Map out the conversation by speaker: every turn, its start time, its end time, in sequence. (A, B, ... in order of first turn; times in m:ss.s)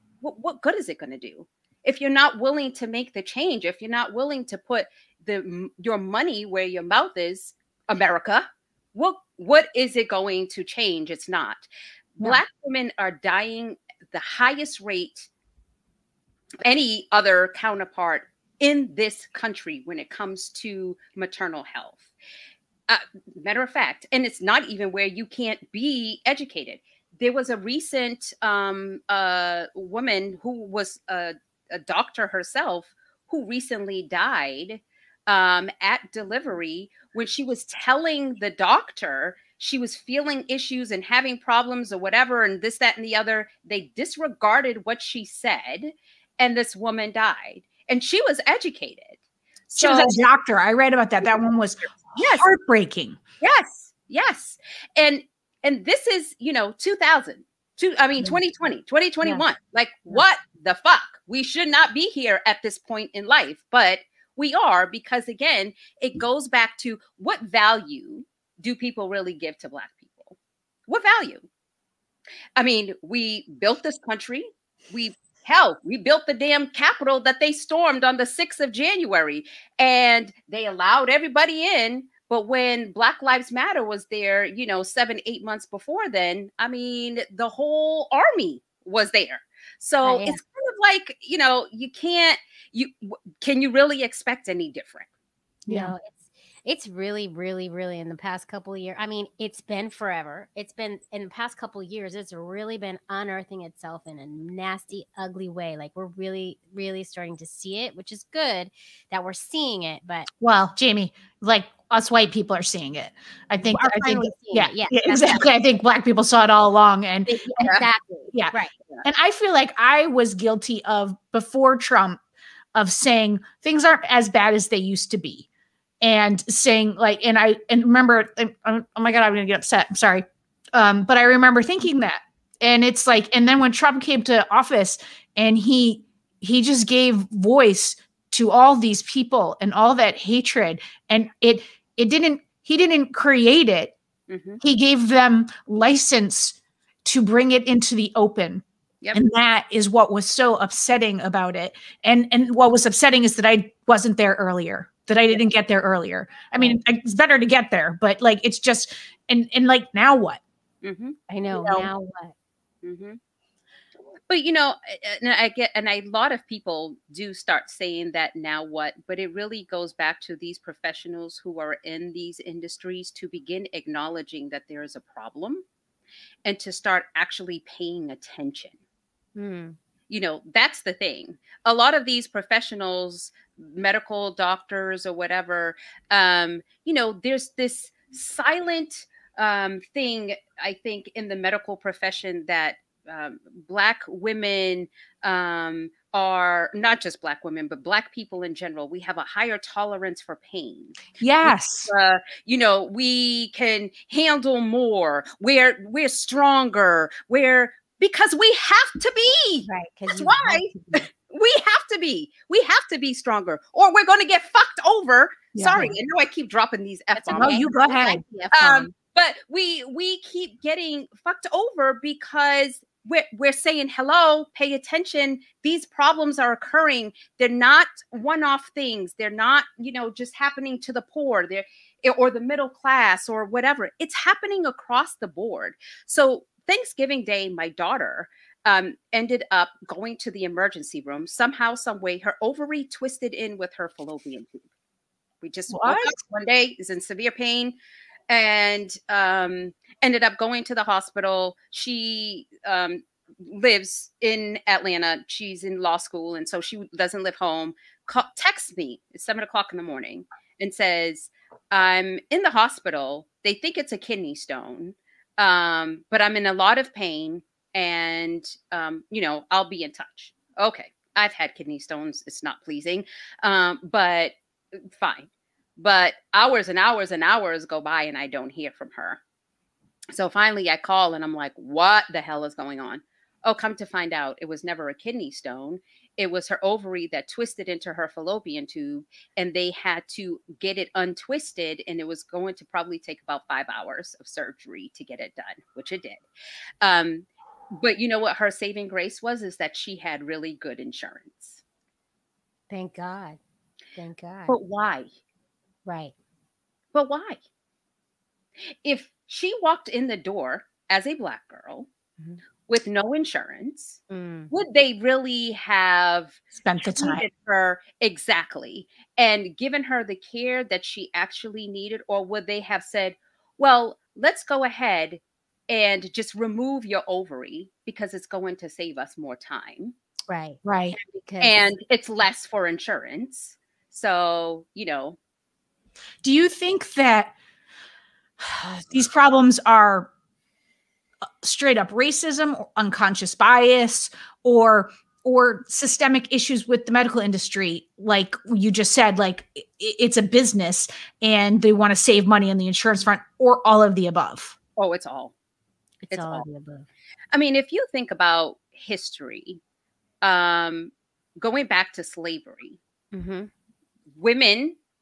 0:00.2-0:11.6 A
0:12.2-0:15.3 A
0:16.6-0:22.1 A
0:22.9-0:50.2 A
0:49.8-0:53.2 B
0:52.1-0:52.4 A
0:53.4-1:10.4 A
1:10.9-1:11.5 A
1:12.6-1:35.1 A
1:30.0-1:30.4 C
1:35.7-1:35.9 B
1:35.7-1:50.3 C
1:50.4-2:02.2 B
1:53.6-1:55.5 C
1:57.3-1:58.8 C
2:02.8-2:05.5 B
2:06.0-2:10.2 B
2:10.8-2:24.0 B
2:24.3-2:24.6 A
2:24.6-2:28.6 B
2:29.1-2:40.4 B
2:40.8-2:41.2 A
2:41.3-2:42.3 C
2:41.5-2:41.9 B
2:42.8-2:43.2 A
2:44.3-2:55.6 A
2:56.4-2:58.8 A
2:59.4-2:59.8 C
3:00.1-3:37.7 A
3:21.2-3:21.9 B
3:29.7-3:31.0 C
3:35.6-3:35.9 B
3:37.2-3:38.9 C
3:37.3-3:38.2 B
3:38.5-4:04.6 A
4:05.4-4:07.8 A
4:05.7-4:06.2 B
4:08.3-4:34.3 A
4:35.0-4:39.2 A
4:40.1-4:56.2 A
4:56.8-5:01.6 A
5:02.7-5:03.4 C
5:04.0-5:04.6 C
5:04.5-5:05.1 A
5:05.9-5:06.1 C
5:06.9-5:07.4 A
5:08.8-5:11.9 A
5:12.7-5:14.0 A
5:14.1-5:14.5 C
5:14.5-5:30.0 A
5:16.6-5:17.2 B
5:30.3-5:31.6 C
5:30.6-5:31.0 B
5:31.4-5:35.2 A
5:36.2-5:37.3 B
5:38.4-5:40.1 B
5:41.4-5:54.6 B
5:54.8-5:55.3 A
5:56.0-5:56.9 C
5:56.1-5:56.4 A
5:57.3-5:59.6 A
6:00.2-6:02.8 A
6:03.1-6:03.5 C
6:04.2-6:04.8 A